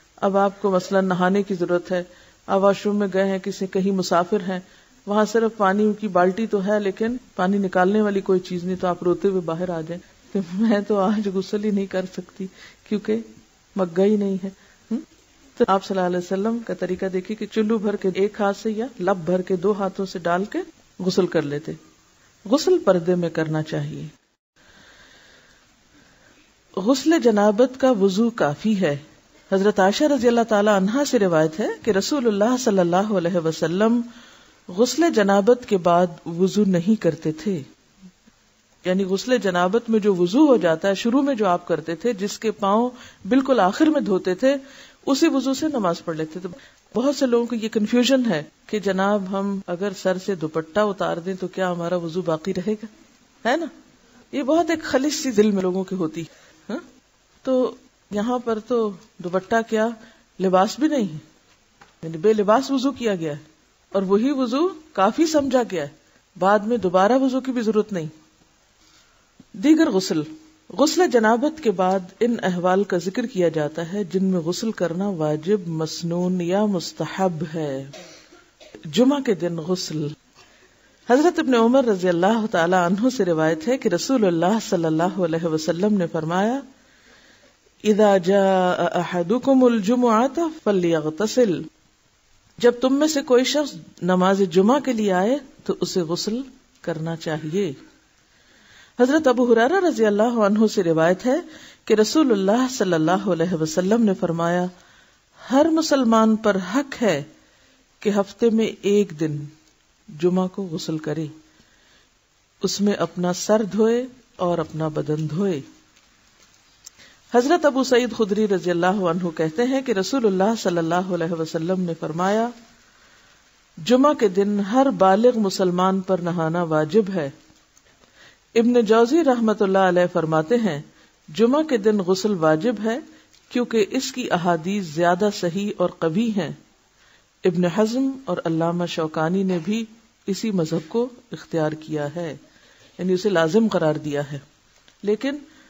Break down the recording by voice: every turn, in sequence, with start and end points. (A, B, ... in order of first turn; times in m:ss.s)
0:00.2-0:15.0 A
0:15.6-0:21.8 A
0:22.5-0:24.1 A
0:26.8-0:34.0 A
0:34.7-0:37.6 A
0:38.8-0:52.9 A
0:53.4-0:53.7 A
0:54.3-0:56.8 A
0:57.4-1:01.2 A
1:02.0-1:08.1 A
1:09.6-1:17.9 A
1:18.9-1:20.2 A
1:21.1-1:26.6 A
1:27.8-1:31.6 A
1:32.6-1:37.7 A
1:39.0-1:44.7 A
1:45.4-1:47.3 A
1:48.0-1:49.5 A
1:50.2-1:51.3 A
1:52.6-1:55.6 A
1:57.3-2:02.5 A
2:03.8-2:07.3 A
2:08.6-2:16.6 A
2:17.4-2:22.4 A
2:23.0-2:24.4 A
2:25.0-2:25.4 A